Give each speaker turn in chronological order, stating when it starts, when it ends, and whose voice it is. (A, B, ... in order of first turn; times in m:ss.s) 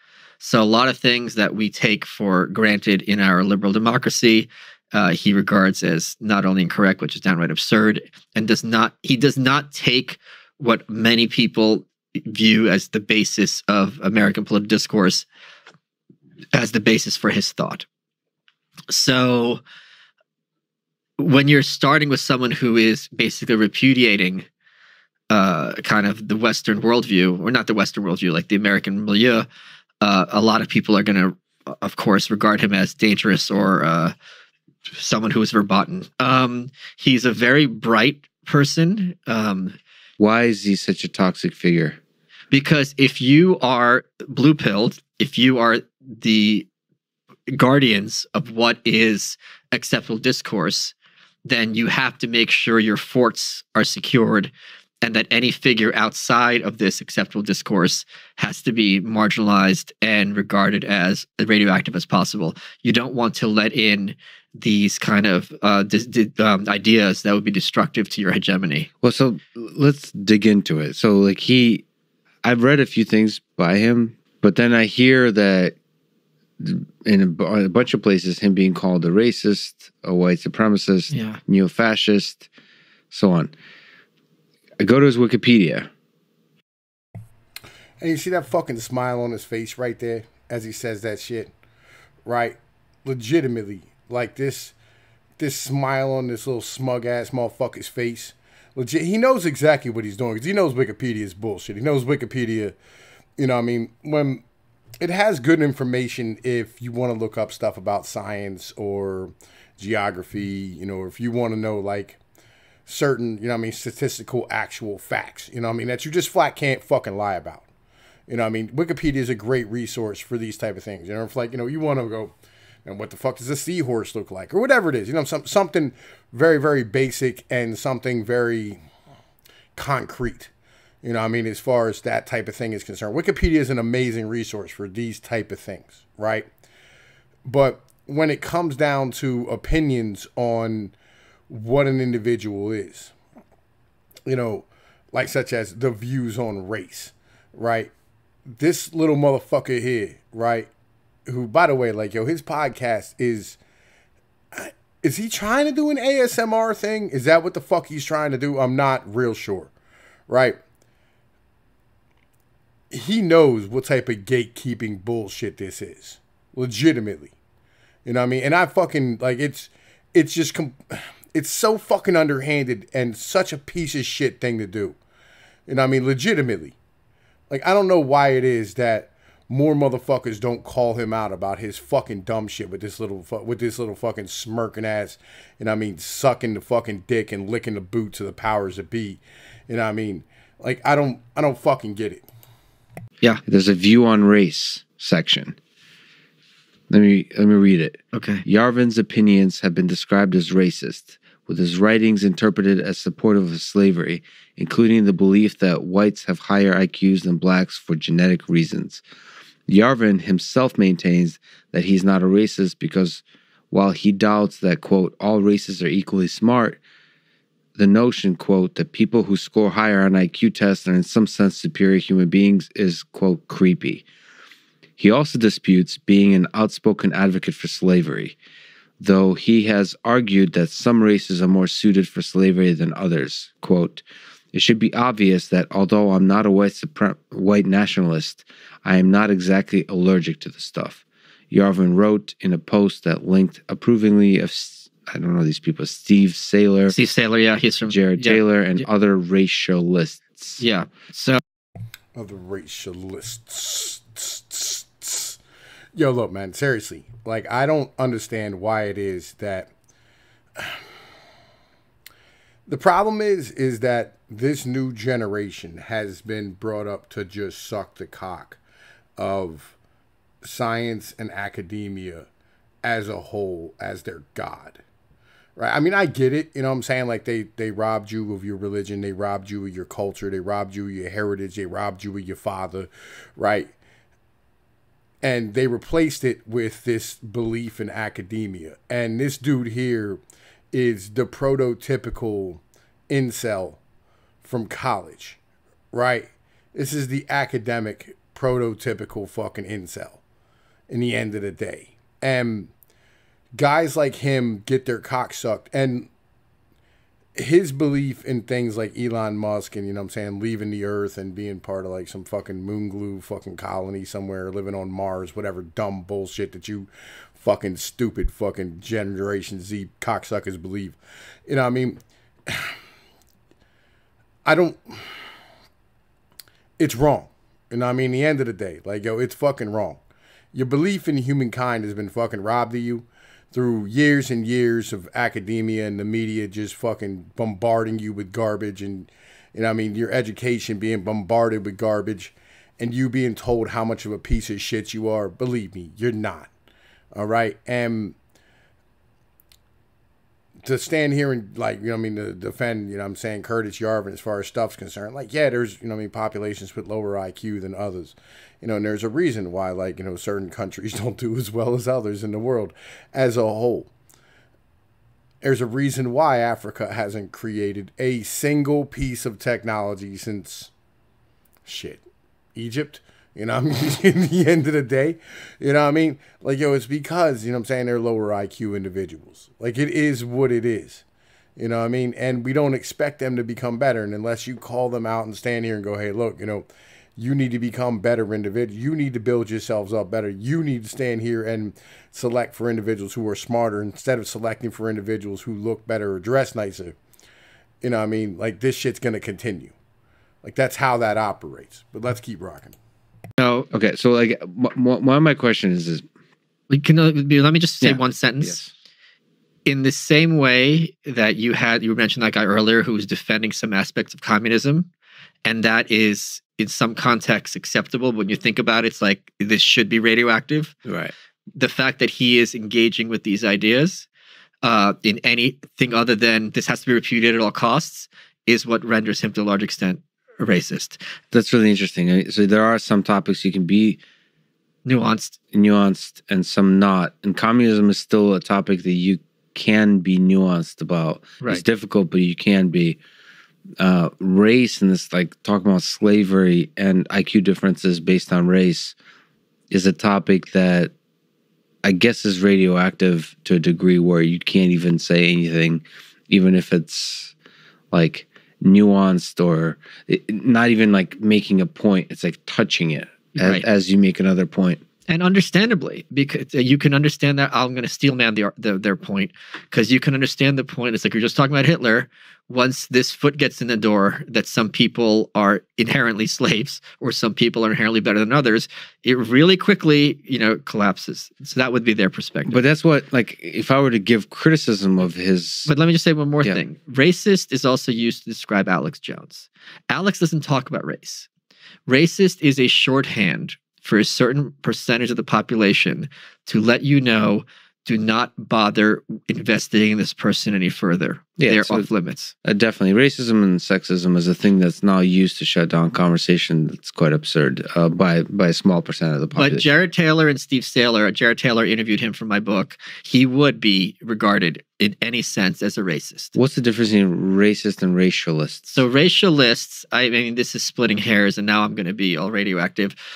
0:00.4-0:15.3 A
0:16.5-0:17.9 A
0:18.9-0:19.6 A
0:21.2-0:24.5 A
0:25.3-0:29.5 A
0:30.0-0:34.2 A
0:34.9-0:39.8 A
0:40.2-0:42.0 B
0:42.5-0:46.7 A
0:47.5-0:50.9 A
0:51.5-0:54.5 A
0:55.0-1:08.9 A
1:09.0-1:11.8 B
1:12.4-1:15.8 B
1:16.6-1:22.5 B
1:21.1-1:21.4 A
1:23.1-1:23.5 B
1:24.8-1:25.9 B
1:28.0-1:31.5 C
1:32.2-1:34.8 C
1:35.4-1:42.8 C
1:43.4-1:44.4 C
1:45.0-1:52.2 C
1:52.9-1:57.7 C
1:58.3-2:08.8 C
2:09.8-2:10.5 C
2:11.0-2:16.5 C
2:17.5-2:20.9 C
2:21.5-2:23.1 C
2:24.3-2:27.9 C
2:28.5-2:30.7 C
2:31.2-2:33.6 C
2:34.5-2:39.7 C
2:40.3-2:40.6 C
2:42.9-2:47.3 C
2:48.1-2:55.0 C
2:55.7-2:56.8 C
2:57.5-3:12.2 C
3:13.4-3:15.6 B
3:16.9-3:29.0 B
3:18.1-3:18.4 A
3:29.7-3:36.8 B
3:37.8-3:44.0 B
3:45.0-3:48.4 B
3:49.0-4:06.9 B
4:06.9-4:08.8 A
4:07.9-4:10.6 B
4:10.6-4:11.4 A
4:12.2-4:15.4 C
4:16.0-4:19.7 C
4:22.7-4:28.6 C
4:29.2-4:29.8 C
4:30.4-4:32.3 C
4:32.8-4:34.8 C
4:35.6-4:43.7 C
4:45.2-4:50.2 C
4:50.7-4:53.8 C
4:54.4-4:55.4 C
4:55.9-5:00.2 C
5:00.9-5:02.7 C
5:03.6-5:06.1 C
5:07.4-5:22.8 C
5:24.5-5:25.2 C
5:26.8-5:30.0 C
5:30.5-5:46.5 C
5:47.1-5:48.2 C
5:50.6-6:03.9 C
6:05.4-6:10.7 C
6:11.6-6:21.0 C
6:21.6-6:37.0 C
6:37.8-6:39.8 C
6:40.4-6:42.8 C
6:43.4-6:43.7 A
6:43.7-6:46.0 B
6:46.7-6:48.6 A
6:47.8-6:48.7 B
6:49.6-6:54.9 A
6:55.4-7:00.8 A
7:00.9-7:01.1 B
7:01.5-7:04.1 A
7:04.6-7:11.0 A
7:11.3-7:14.0 B
7:14.8-7:15.4 A
7:15.5-7:23.0 B
7:23.8-7:29.0 B
7:29.7-7:30.9 B
7:31.8-7:37.3 B
7:37.9-7:44.8 B
7:43.4-7:43.6 A
7:45.1-8:02.6 A
8:02.5-8:05.7 B
8:05.7-8:11.3 A
8:11.9-8:22.3 A
8:21.4-8:21.9 B
8:22.4-8:29.7 B
8:29.4-8:36.3 A
8:36.4-8:38.8 B
8:38.7-8:43.0 A